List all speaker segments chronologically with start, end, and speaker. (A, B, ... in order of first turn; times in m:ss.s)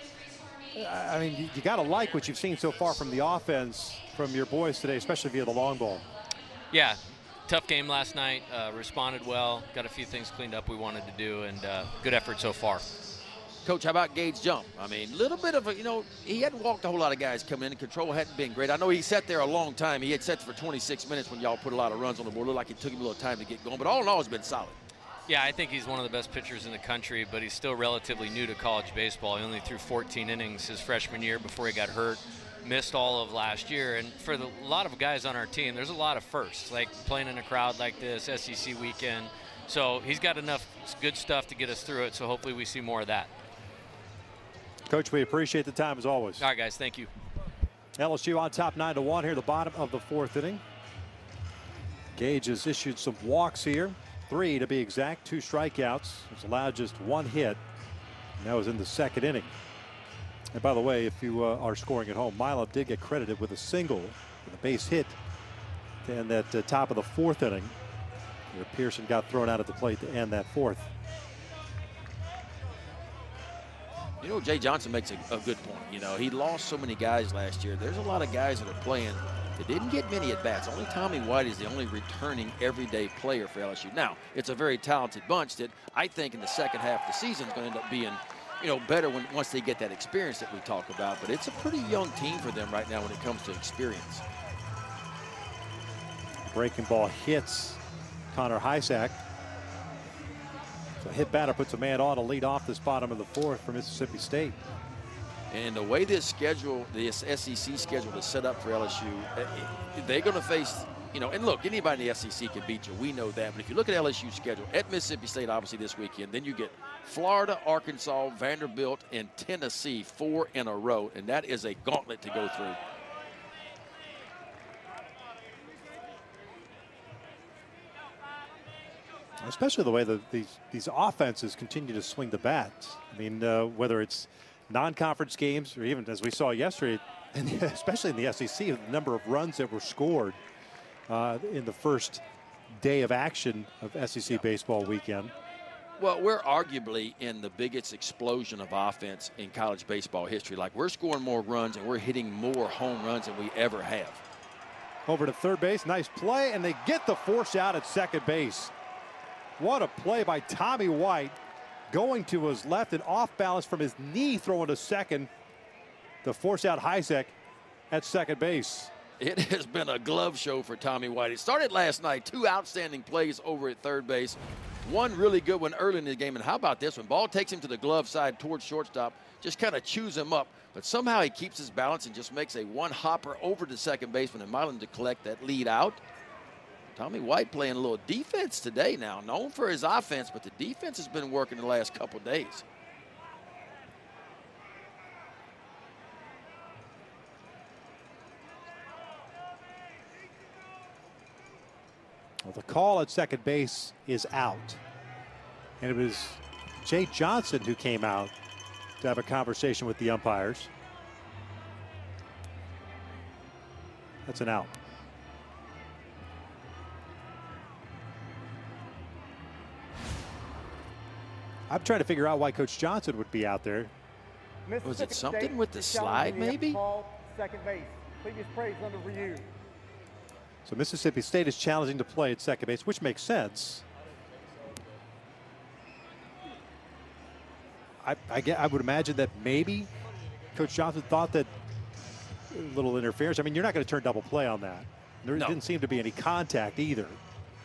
0:00.7-0:06.1 A
0:06.7-0:12.9 B
0:13.6-0:24.8 C
0:25.3-0:43.3 B
0:44.9-0:46.4 A
0:46.4-0:47.1 B
0:48.0-0:50.6 A
0:52.1-0:57.6 A
0:58.4-0:59.5 A
1:00.5-1:05.2 A
1:06.0-1:07.8 A
1:08.5-1:10.9 A
1:14.2-1:34.2 C
1:36.5-1:37.8 A
1:38.3-1:39.2 A
1:41.0-1:44.6 A
1:45.5-2:02.8 C
2:09.4-2:20.4 A
2:21.1-2:25.3 A
2:26.0-2:34.2 C
2:35.0-2:38.7 A
2:39.6-2:41.4 A
2:41.9-2:45.3 A
2:46.2-2:47.3 A
2:47.9-2:48.9 A
2:49.2-3:06.0 C
3:06.9-3:12.6 C
3:22.4-3:24.8 A
3:25.8-3:28.3 A
3:29.0-3:30.7 A
3:34.2-3:34.7 A
3:41.7-3:43.9 A
3:44.6-3:49.5 D
3:44.8-3:46.8 C
3:50.6-3:53.8 A
3:58.0-3:59.9 A
4:00.5-4:01.5 A
4:02.5-4:07.2 A